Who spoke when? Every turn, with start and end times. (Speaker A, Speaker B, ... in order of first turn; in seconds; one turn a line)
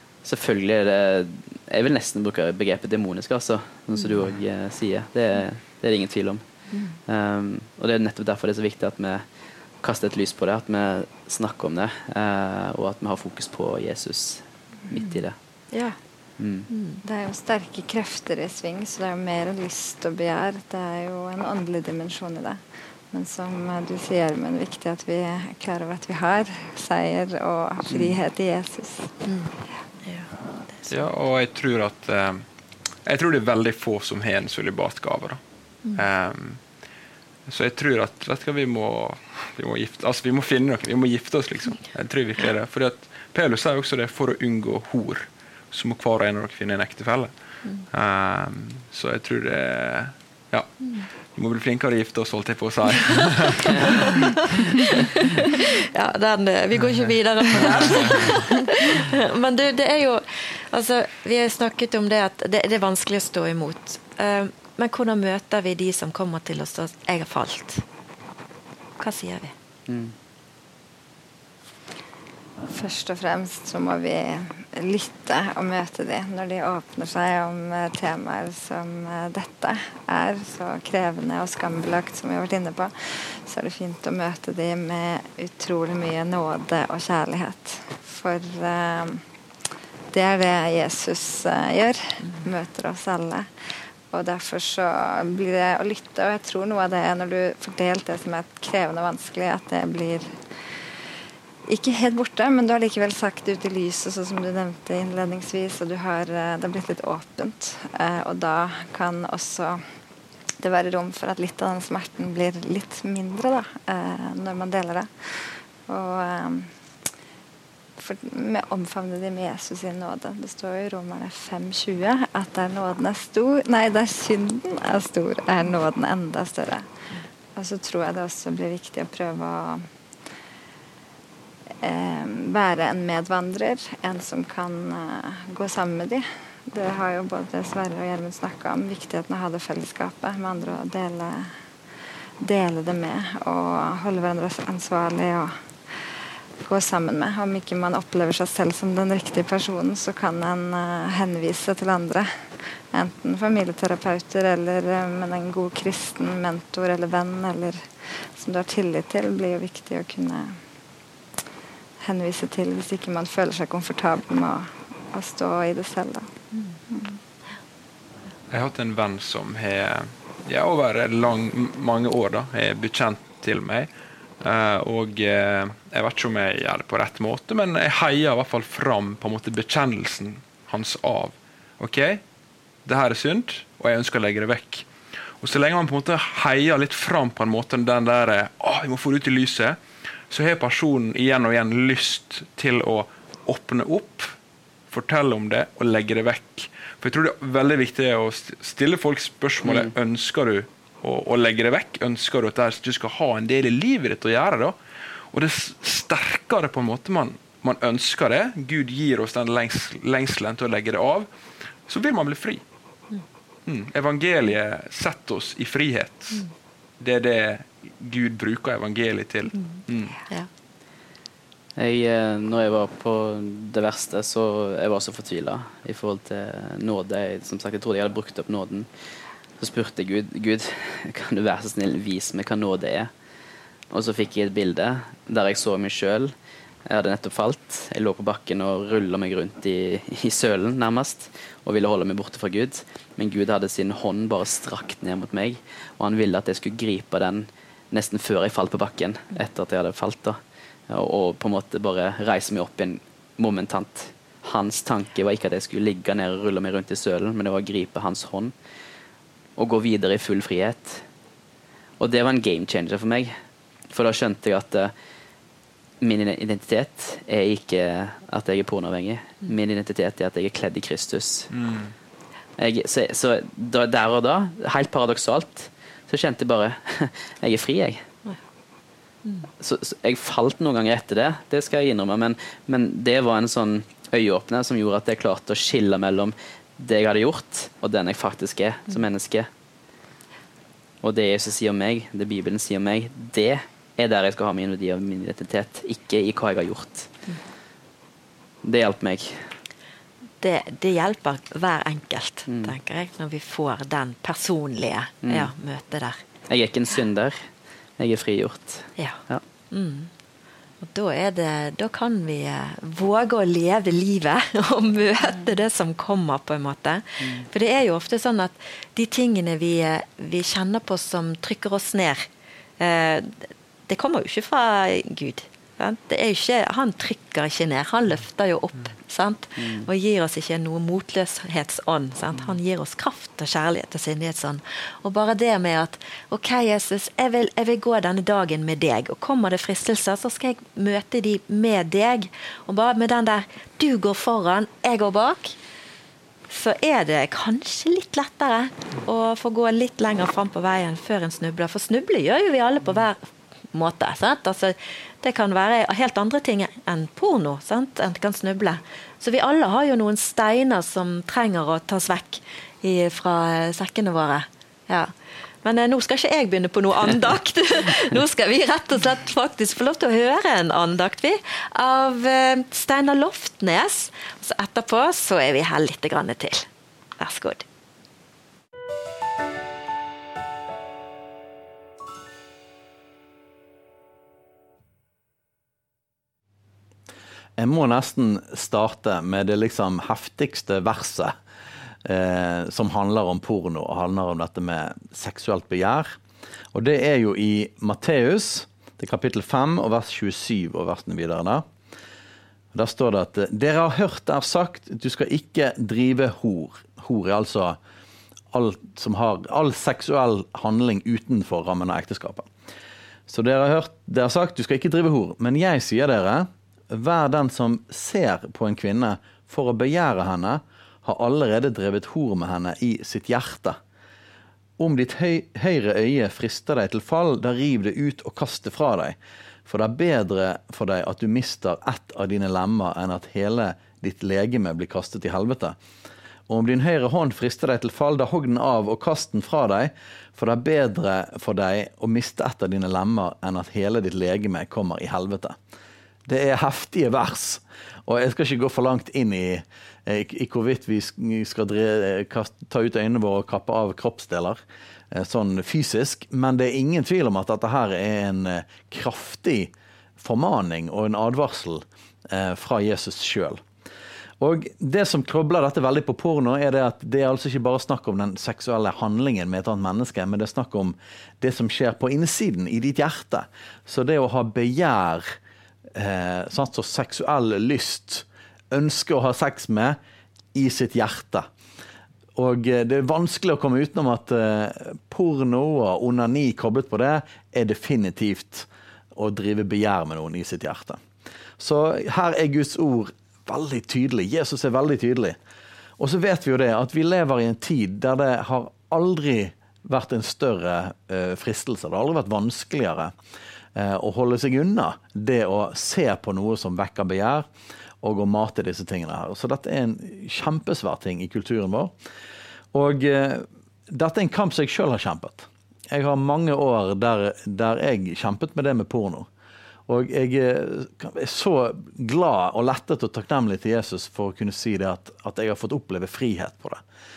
Speaker A: 0.2-6.4
Speaker B: 6.7-7.0
Speaker A: 7.0-9.2
Speaker A: 9.8-15.3
Speaker B: 15.7-15.9
Speaker A: 16.4-16.7
Speaker B: 16.7-17.0
Speaker C: 17.0-29.1
Speaker A: 27.9-28.2
Speaker B: 29.2-31.0
Speaker D: 30.9-32.4
Speaker D: 33.0-35.4
Speaker D: 35.9-36.6
Speaker D: 37.5-47.3
Speaker D: 47.9-54.2
Speaker B: 50.8-51.0
Speaker B: 54.1-67.8
Speaker D: 57.6-58.3
Speaker B: 69.0-69.5
Speaker A: 69.9-70.1
Speaker C: 72.7-89.2
Speaker C: 90.1-93.5
Speaker C: 94.1-100.4
Speaker C: 101.6-109.8
Speaker C: 110.6-116.7
Speaker C: 118.0-126.9
Speaker C: 127.5-129.8
Speaker C: 131.8-141.5
Speaker C: 142.4-146.0
Speaker C: 146.6-152.3
Speaker C: 152.9-160.6
Speaker C: 162.0-166.3
Speaker C: 166.9-167.2
Speaker D: 168.5-182.2
Speaker D: 182.8-184.9
Speaker D: 185.4-189.8
Speaker D: 190.3-194.3
Speaker D: 194.9-204.8
Speaker A: 199.6-199.9
Speaker D: 205.3-211.3
Speaker D: 211.8-212.6
Speaker D: 213.7-216.4
Speaker D: 217.0-220.2
Speaker A: 221.8-228.9
Speaker A: 229.6-233.1
Speaker A: 233.9-236.3
Speaker A: 236.9-250.4
Speaker A: 250.9-258.5
Speaker A: 259.6-261.0
Speaker A: 262.0-263.3
Speaker A: 263.9-264.9
Speaker A: 266.0-271.5
Speaker D: 271.5-271.9
Speaker A: 272.6-278.0
Speaker B: 279.2-279.5
Speaker A: 279.6-289.5
Speaker A: 291.0-297.1
Speaker A: 298.6-299.4
Speaker B: 300.4-306.2
Speaker A: 302.5-302.7
Speaker A: 305.2-305.5
Speaker A: 306.5-307.5
Speaker A: 308.0-309.4
Speaker B: 309.7-310.1
Speaker B: 310.8-322.3
Speaker B: 322.8-345.6
Speaker A: 329.6-329.9
Speaker B: 346.5-353.2
Speaker B: 353.7-365.1
Speaker B: 365.6-376.7
Speaker B: 377.2-377.6
Speaker E: 387.6-391.4
Speaker E: 392.0-396.2
Speaker E: 396.7-401.6
Speaker E: 402.7-407.8
Speaker E: 408.5-412.5
Speaker E: 413.3-423.8
Speaker E: 424.8-435.8
Speaker E: 436.5-445.6
Speaker E: 446.2-454.6
Speaker E: 455.1-463.6
Speaker E: 464.4-475.4
Speaker E: 475.9-480.0
Speaker E: 480.5-481.5
Speaker E: 482.3-491.0
Speaker E: 491.6-495.4
Speaker E: 496.0-503.1
Speaker E: 503.7-507.5
Speaker E: 508.0-511.9
Speaker E: 512.7-519.3
Speaker E: 519.9-526.8